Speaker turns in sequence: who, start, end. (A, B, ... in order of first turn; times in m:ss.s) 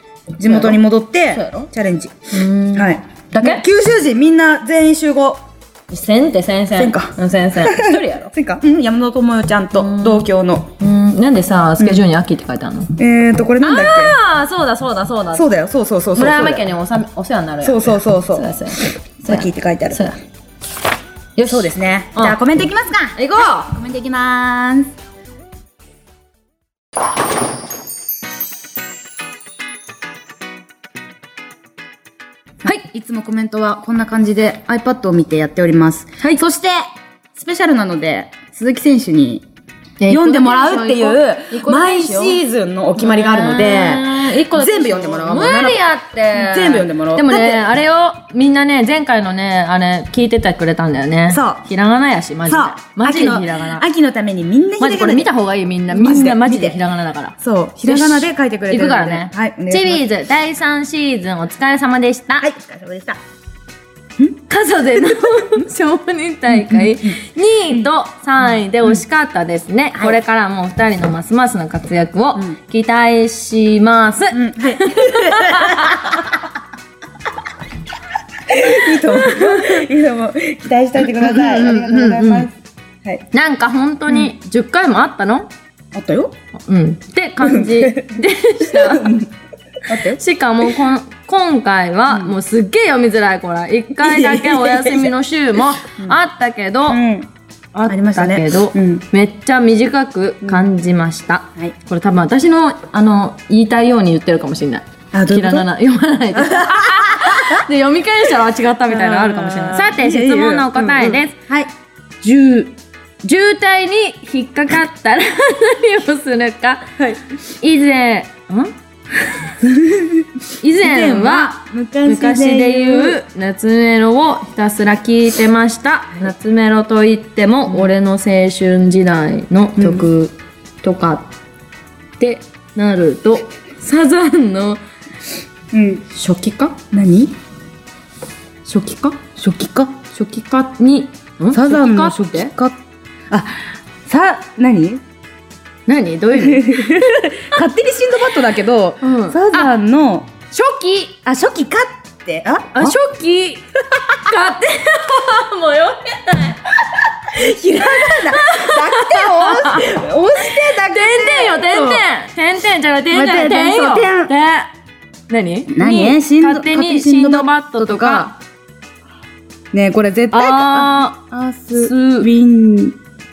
0:00.4-0:05.4 A
0:00.4-0:00.8 B
0:01.3-0:01.7 B
0:02.3-0:03.6 B
0:05.9-0:08.3 B
0:06.8-0:10.7 A
0:09.7-0:10.3 B
0:10.8-0:12.9 B
0:13.0-0:14.2 A
0:13.6-0:15.5 B
0:15.3-0:16.6 A
0:16.1-0:20.2 B
0:17.6-0:18.5 A
0:19.2-0:20.0 A
0:21.4-0:22.6 B
0:21.4-0:24.9 A
0:23.2-0:23.7 B
0:32.6-0:39.4 A
0:40.0-0:42.4 B
0:40.1-0:47.6 A
0:43.0-0:53.8 B
0:51.3-0:51.6 A
0:52.4-0:55.3 A
0:54.8-1:02.5 B
0:55.9-0:56.8 A
0:57.4-1:00.0 A
1:02.4-1:03.2 A
1:04.5-1:16.1 B
1:06.5-1:07.2 A
1:14.3-1:16.4 A
1:18.4-1:22.5 A
1:19.4-1:19.8 B
1:21.0-1:22.5 B
1:23.3-1:25.5 B
1:25.9-1:26.3 A
1:26.6-1:29.2 B
1:27.4-1:29.3 A
1:29.8-1:30.2 A
1:29.9-1:37.0 B
1:34.0-1:35.1 A
1:36.9-1:37.3 A
1:37.7-1:51.4 B
1:37.9-1:39.0 A
1:40.4-1:40.7 A
1:45.1-1:45.7 A
1:46.3-1:47.6 A
1:48.9-1:51.7 A
1:52.2-1:56.9 B
1:57.5-1:58.7 B
1:59.6-2:03.2 A
2:00.6-2:11.3 B
2:09.8-2:10.1 A
2:12.2-2:14.8 B
2:15.7-2:16.0 A
2:16.1-2:16.8 B
2:16.9-2:17.4 A
2:18.6-2:19.2 B
2:19.3-2:20.1 A
2:20.2-2:22.5 B
2:21.5-2:22.8 A
2:23.3-2:25.0 A
2:25.9-2:27.2 B
2:26.3-2:30.3 A
2:29.0-2:29.7 B
2:30.5-2:31.2 B
2:31.2-2:33.0 A
2:32.7-2:37.0 B
2:37.2-2:42.0 A
2:37.8-2:39.9 B
2:40.4-2:44.7 B
2:43.1-2:44.3 A
2:45.3-2:48.4 B
2:45.7-2:48.3 A
2:49.7-2:53.0 A
2:50.3-2:51.2 B
2:51.7-2:52.3 B